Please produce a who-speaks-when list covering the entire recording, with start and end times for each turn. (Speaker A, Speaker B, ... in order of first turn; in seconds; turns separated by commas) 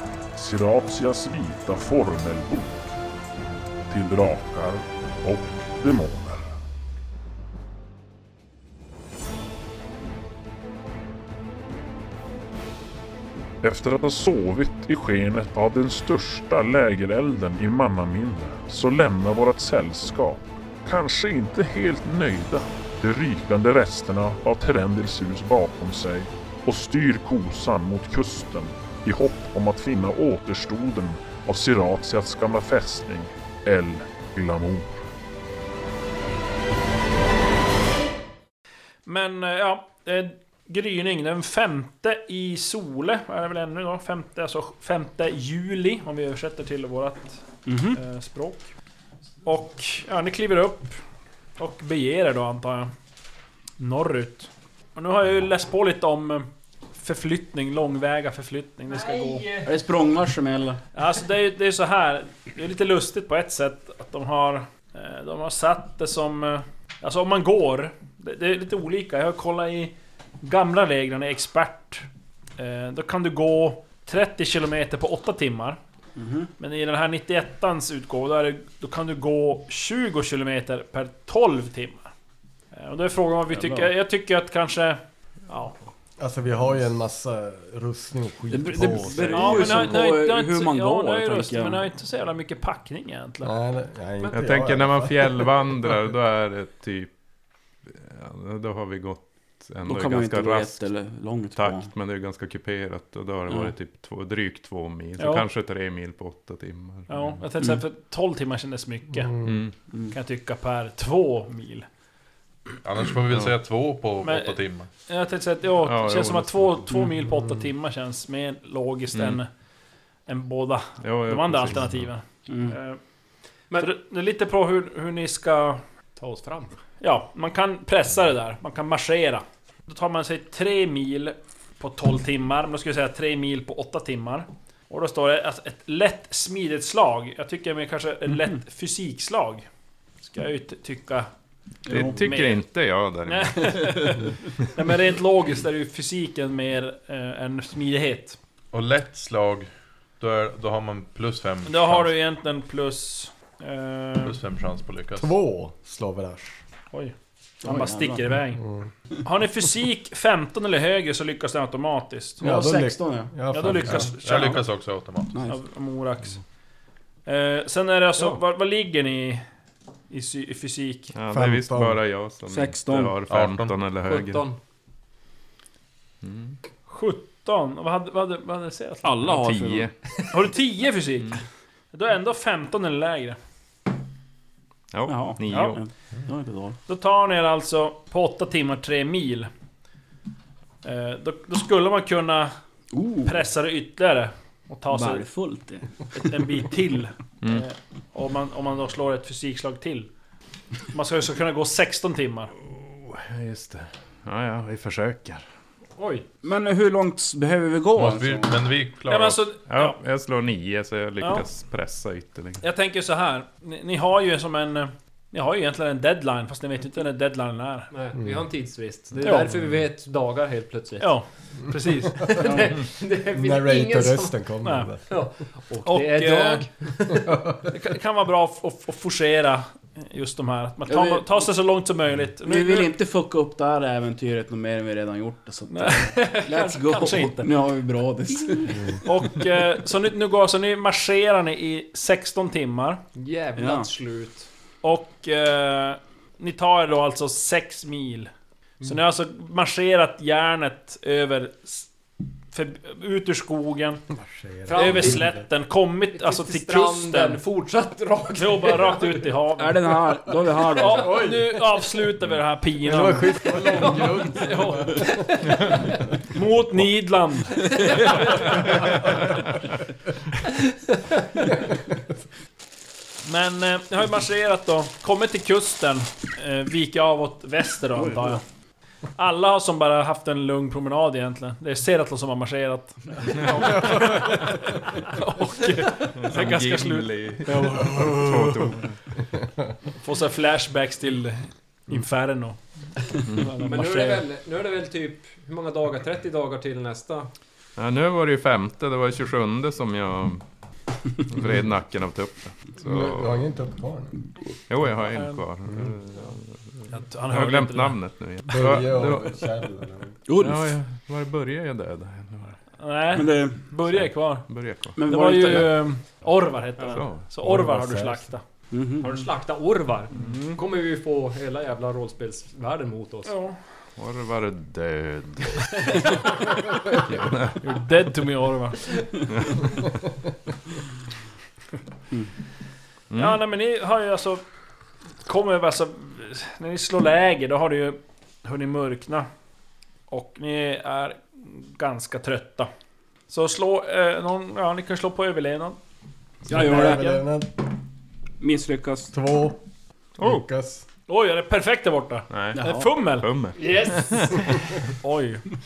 Speaker A: 0.3-2.9, Speaker A: 3.9-6.6, Speaker A: 13.6-35.1, Speaker B: 39.0-48.7, Speaker C: 47.6-48.0, Speaker B: 49.4-51.0, Speaker B: 51.6-52.9, Speaker B: 53.8-59.5, Speaker D: 59.0-59.7, Speaker C: 59.6-60.8, Speaker B: 60.9-75.8, Speaker C: 76.2-76.5, Speaker B: 76.6-82.1, Speaker B: 82.7-85.7, Speaker C: 83.5-83.9, Speaker E: 86.2-90.0, Speaker C: 88.5-91.8, Speaker B: 89.2-93.5, Speaker E: 93.4-95.9, Speaker D: 94.2-94.5, Speaker F: 94.3-97.1, Speaker F: 97.9-100.8, Speaker C: 99.8-101.9, Speaker F: 101.5-107.4, Speaker C: 103.5-103.7, Speaker B: 105.2-105.4, Speaker B: 107.1-109.4, Speaker E: 109.2-109.6, Speaker F: 109.4-109.7, Speaker C: 109.9-110.2, Speaker B: 110.1-111.8, Speaker G: 112.8-114.9, Speaker B: 114.2-119.5, Speaker F: 115.8-116.9, Speaker F: 119.1-119.4, Speaker B: 120.3-123.0, Speaker F: 121.0-122.1, Speaker C: 122.5-122.8, Speaker B: 123.8-125.8, Speaker D: 126.2-126.8, Speaker B: 127.0-139.7, Speaker B: 140.2-141.3, Speaker C: 141.8-142.2, Speaker F: 141.9-144.0, Speaker B: 142.1-142.6, Speaker B: 143.2-148.4, Speaker G: 148.7-149.7, Speaker G: 150.2-152.1, Speaker B: 151.6-154.4, Speaker G: 154.2-155.3, Speaker E: 155.2-156.6, Speaker B: 156.9-158.6, Speaker C: 157.6-158.4, Speaker E: 158.6-158.9, Speaker B: 159.2-162.4, Speaker C: 162.4-163.3, Speaker E: 162.4-164.1, Speaker B: 163.5-164.6, Speaker G: 163.7-165.3, Speaker C: 165.3-165.6, Speaker B: 165.4-166.4, Speaker B: 167.2-169.4, Speaker B: 170.1-171.1, Speaker F: 171.1-174.4, Speaker E: 171.3-172.0, Speaker C: 172.5-173.2, Speaker G: 173.3-173.8, Speaker D: 174.1-174.6, Speaker F: 176.2-176.6, Speaker B: 176.9-179.1, Speaker C: 179.0-179.9, Speaker F: 179.2-179.9, Speaker B: 180.3-183.4, Speaker F: 184.9-185.8, Speaker C: 185.1-186.8, Speaker B: 185.5-185.8, Speaker B: 186.9-189.5, Speaker B: 190.8-192.5, Speaker C: 192.9-193.4, Speaker B: 193.2-195.3, Speaker C: 194.9-196.4, Speaker B: 196.1-200.1, Speaker B: 200.9-202.5, Speaker F: 202.7-205.4, Speaker D: 206.0-206.2, Speaker C: 206.4-208.6, Speaker G: 207.9-209.4, Speaker B: 209.1-210.0, Speaker F: 209.7-212.6, Speaker B: 211.2-211.4, Speaker B: 212.6-217.9, Speaker D: 217.9-221.2, Speaker E: 218.2-218.4, Speaker B: 219.2-219.5, Speaker B: 221.0-222.8, Speaker D: 222.0-224.4, Speaker E: 223.3-225.2, Speaker B: 224.6-224.9, Speaker D: 225.1-227.4, Speaker B: 225.8-226.6, Speaker E: 227.1-227.7, Speaker B: 227.7-232.9, Speaker C: 230.8-231.5, Speaker C: 232.4-239.0, Speaker B: 235.7-237.5, Speaker B: 239.0-243.0, Speaker D: 243.1-244.5, Speaker C: 243.6-243.9, Speaker B: 244.8-248.3, Speaker B: 248.8-251.9, Speaker B: 252.5-254.0, Speaker E: 254.1-255.4, Speaker D: 254.7-255.4, Speaker B: 254.7-257.4, Speaker D: 256.1-259.2, Speaker B: 258.4-259.8, Speaker C: 259.6-261.3, Speaker B: 260.7-265.5, Speaker E: 261.0-261.4, Speaker E: 262.8-265.2, Speaker D: 263.6-264.3, Speaker D: 265.0-266.0, Speaker B: 266.3-268.6, Speaker D: 267.8-268.6, Speaker B: 273.2-278.4, Speaker B: 279.2-288.8, Speaker F: 283.7-284.4, Speaker F: 286.1-289.1, Speaker B: 290.0-294.2, Speaker F: 293.2-293.5, Speaker D: 293.6-297.3, Speaker F: 297.8-300.4, Speaker F: 301.2-303.4, Speaker E: 302.8-304.2, Speaker F: 304.7-309.5, Speaker B: 305.0-305.4, Speaker B: 306.9-308.0, Speaker E: 308.5-310.1, Speaker C: 310.3-310.8, Speaker F: 310.4-312.6, Speaker B: 312.8-314.5, Speaker C: 313.1-313.6, Speaker F: 314.3-315.0, Speaker C: 314.9-315.8, Speaker B: 315.0-318.4, Speaker F: 316.9-317.2, Speaker E: 317.4-318.3, Speaker C: 318.7-319.2, Speaker D: 319.0-323.3, Speaker B: 320.1-320.6, Speaker B: 323.2-323.6, Speaker F: 324.0-326.3, Speaker F: 326.9-327.6, Speaker B: 327.6-328.8, Speaker F: 329.4-329.7, Speaker F: 333.1-333.4, Speaker B: 333.1-334.4, Speaker B: 335.2-339.3, Speaker B: 340.1-342.7, Speaker B: 343.3-345.8, Speaker C: 346.5-347.1, Speaker E: 346.5-347.6, Speaker B: 346.5-347.2, Speaker C: 348.4-349.1, Speaker E: 349.1-349.6, Speaker F: 350.2-350.4, Speaker E: 350.2-350.8, Speaker B: 351.1-353.3, Speaker F: 352.3-352.6, Speaker C: 352.5-352.9, Speaker F: 353.2-354.7, Speaker D: 353.6-354.5, Speaker B: 355.0-355.4